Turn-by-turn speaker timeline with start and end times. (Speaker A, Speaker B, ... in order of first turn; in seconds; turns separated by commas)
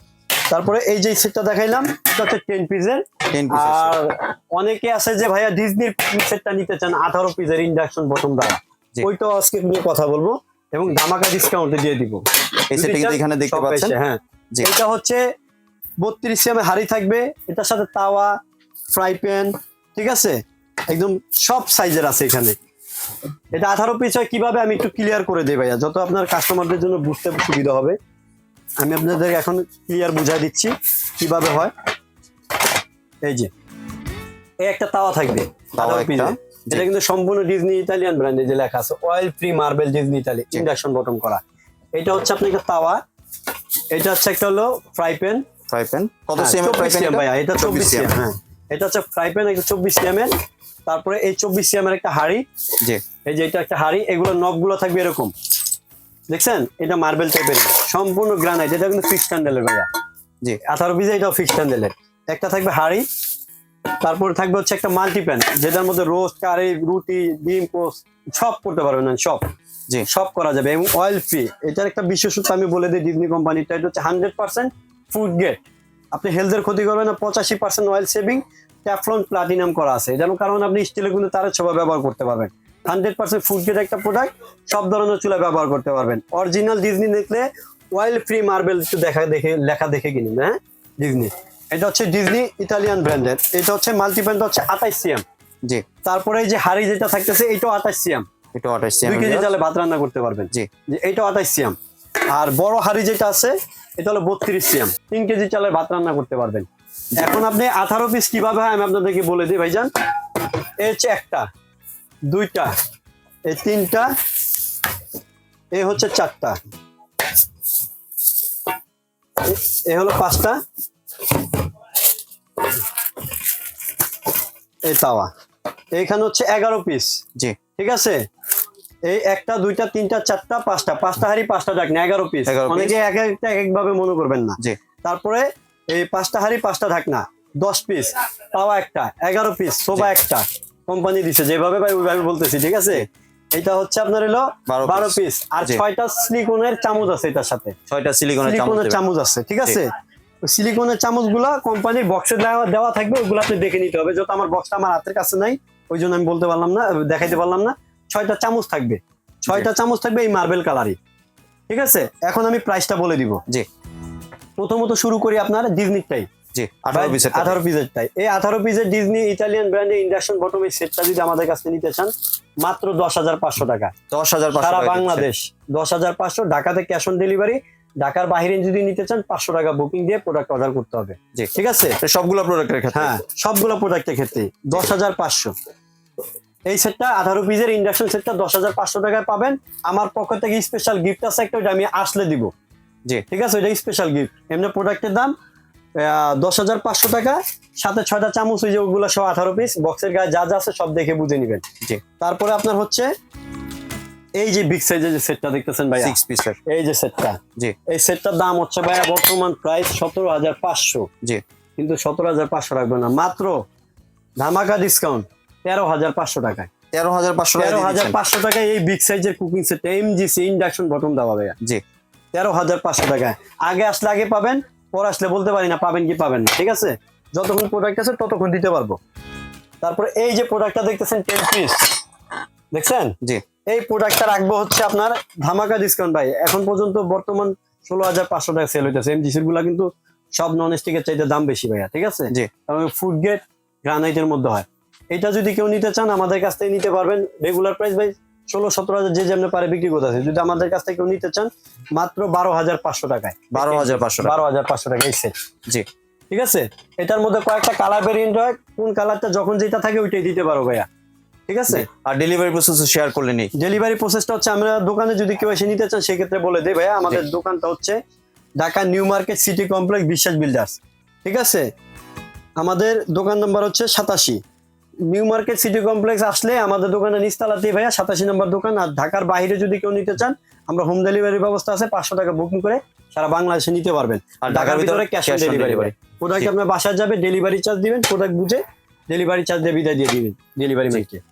Speaker A: 0.5-12.2, Speaker B: 3.3-4.0, Speaker B: 12.7-13.9, Speaker A: 12.7-15.2, Speaker A: 16.0-18.4, Speaker A: 18.9-20.4, Speaker A: 20.9-22.6, Speaker A: 23.5-28.0, Speaker A: 28.8-31.7, Speaker A: 33.2-33.5, Speaker A: 34.6-41.4, Speaker B: 35.8-36.9, Speaker A: 42.0-43.0, Speaker A: 43.9-45.5, Speaker B: 45.7-48.1, Speaker A: 46.4-50.3, Speaker A: 50.9-52.4, Speaker A: 53.2-55.3, Speaker A: 56.3-59.9, Speaker A: 60.6-63.1, Speaker A: 64.0-69.4, Speaker A: 70.1-95.2, Speaker A: 96.0-98.3, Speaker B: 98.5-99.5, Speaker A: 99.0-101.8, Speaker A: 102.3-106.7, Speaker A: 107.2-109.9, Speaker A: 110.8-111.5, Speaker A: 112.3-112.7, Speaker A: 113.5-114.1, Speaker A: 115.7-116.6, Speaker A: 119.4-120.6, Speaker A: 124.9-125.3, Speaker A: 125.9-127.2, Speaker A: 127.8-128.2, Speaker A: 129.1-147.8, Speaker B: 132.5-133.0, Speaker B: 144.7-145.8, Speaker B: 147.9-149.0, Speaker A: 148.4-149.9, Speaker A: 150.4-161.0, Speaker A: 161.7-163.4, Speaker A: 164.6-166.3, Speaker B: 166.5-167.6, Speaker A: 166.9-172.1, Speaker A: 172.6-173.9, Speaker B: 174.1-175.3, Speaker A: 174.6-182.0, Speaker B: 181.3-183.1, Speaker A: 182.9-185.5, Speaker A: 186.7-192.5, Speaker A: 193.3-195.3, Speaker A: 196.0-201.6, Speaker A: 202.2-203.1, Speaker A: 204.4-211.1, Speaker B: 206.0-206.6, Speaker A: 211.8-213.6, Speaker A: 214.4-216.7, Speaker B: 216.9-218.2, Speaker A: 217.6-221.6, Speaker A: 222.3-229.0, Speaker A: 229.8-232.0, Speaker A: 232.7-233.2, Speaker A: 233.7-255.3, Speaker B: 253.5-254.4, Speaker A: 256.3-260.9, Speaker A: 261.5-261.9, Speaker B: 261.7-263.5, Speaker A: 263.6-268.0, Speaker A: 268.6-271.7, Speaker A: 272.6-274.4, Speaker A: 275.1-291.2, Speaker B: 284.4-286.5